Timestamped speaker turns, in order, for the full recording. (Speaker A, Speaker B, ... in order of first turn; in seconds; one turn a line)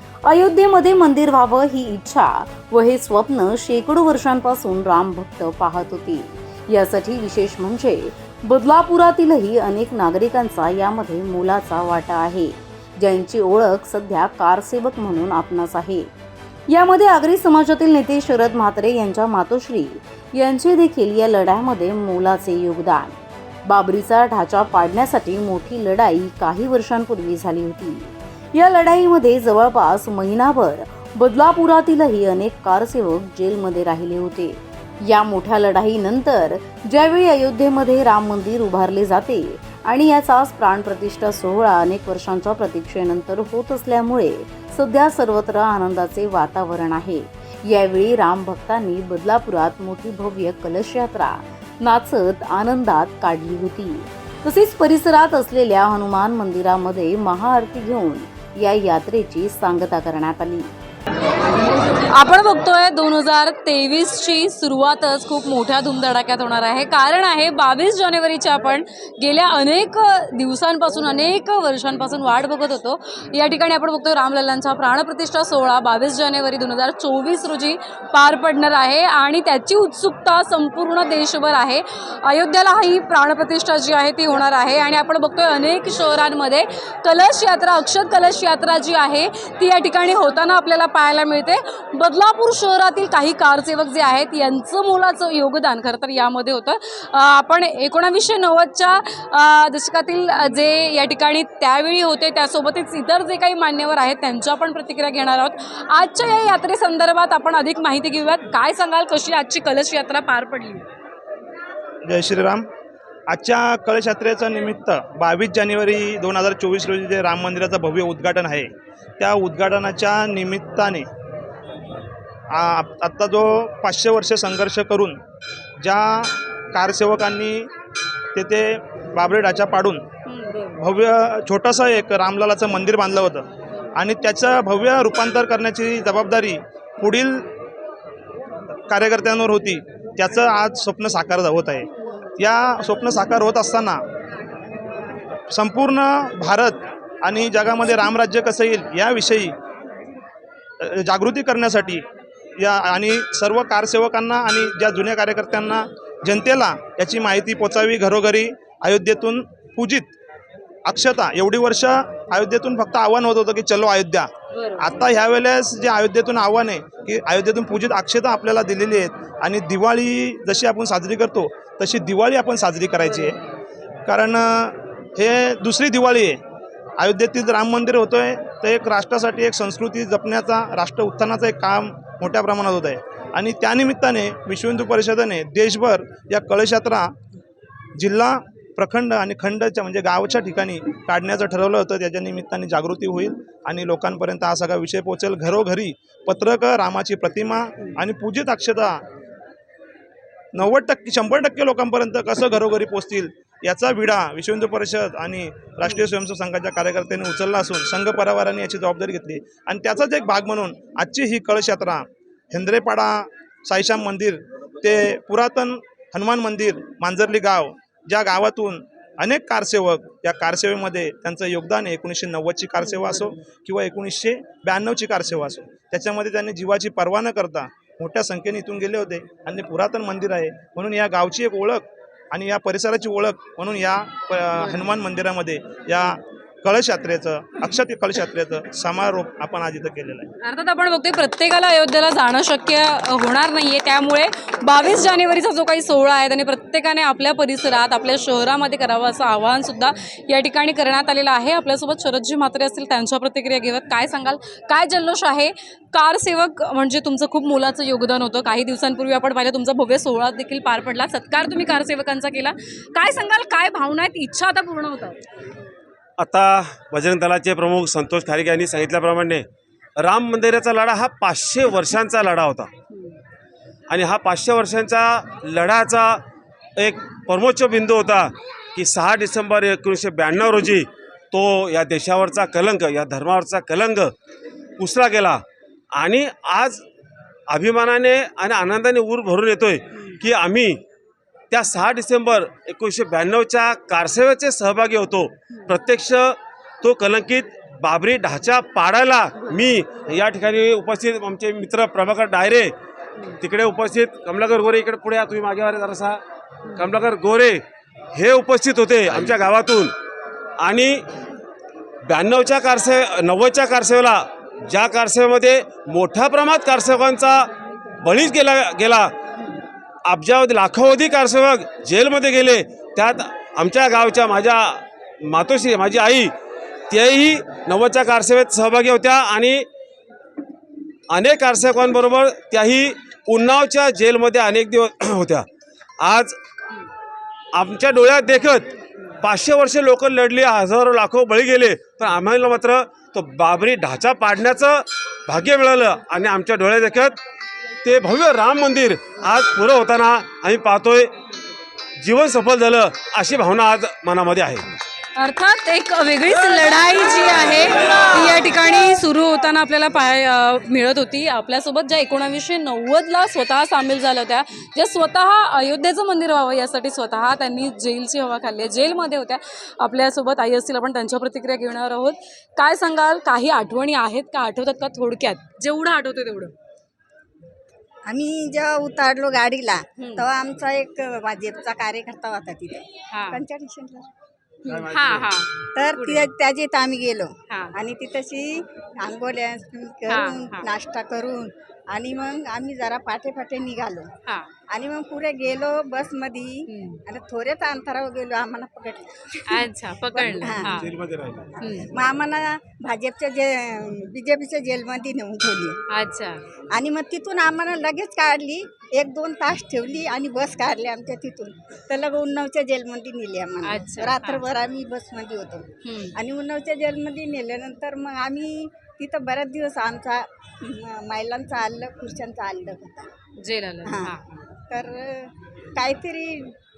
Speaker A: 0.2-16.1
Speaker A: 16.7-60.7
Speaker B: 62.1-110.8
Speaker C: 112.0-112.7
Speaker C: 113.3-121.0
Speaker C: 122.5-125.2
Speaker C: 125.8-127.7
Speaker C: 128.3-130.0
Speaker B: 130.2-130.8
Speaker C: 130.8-137.5
Speaker C: 138.9-144.0
Speaker C: 145.5-149.5
Speaker C: 150.8-152.0
Speaker C: 152.6-160.1
Speaker C: 160.8-173.4
Speaker B: 164.5-165.0
Speaker B: 173.0-173.5
Speaker C: 174.1-176.4
Speaker C: 177.0-187.1
Speaker C: 188.0-199.0
Speaker C: 200.5-240.3
Speaker B: 240.4-265.2
Speaker D: 266.2-269.4
Speaker D: 270.0-272.7
Speaker D: 273.9-276.2
Speaker D: 276.8-284.1
Speaker D: 284.8-285.4
Speaker D: 285.9-286.8
Speaker D: 287.5-290.8
Speaker D: 291.5-302.7
Speaker D: 303.4-306.2
Speaker D: 306.7-307.6
Speaker D: 308.1-309.9
Speaker D: 310.6-311.0
Speaker D: 312.0-317.5
Speaker D: 318.0-319.1
Speaker D: 320.0-326.3
Speaker D: 326.9-329.6
Speaker D: 331.1-335.4
Speaker D: 336.0-336.4
Speaker D: 337.5-338.7
Speaker D: 339.2-347.2
Speaker D: 347.8-351.1
Speaker D: 352.0-354.6
Speaker B: 355.1-376.5
Speaker E: 378.1-384.1
Speaker B: 380.0-380.2
Speaker B: 383.1-383.4
Speaker B: 384.6-386.3
Speaker E: 385.7-388.5
Speaker B: 387.5-387.7
Speaker E: 389.0-394.1
Speaker B: 390.1-390.7
Speaker E: 394.7-399.6
Speaker B: 396.7-397.0
Speaker B: 399.5-400.9
Speaker E: 400.1-400.7
Speaker D: 400.6-401.5
Speaker B: 401.6-401.9
Speaker E: 401.9-405.8
Speaker B: 405.9-406.4
Speaker E: 406.7-423.1
Speaker B: 413.6-414.5
Speaker B: 415.8-416.1
Speaker B: 423.4-424.4
Speaker E: 423.9-424.1
Speaker E: 424.7-426.4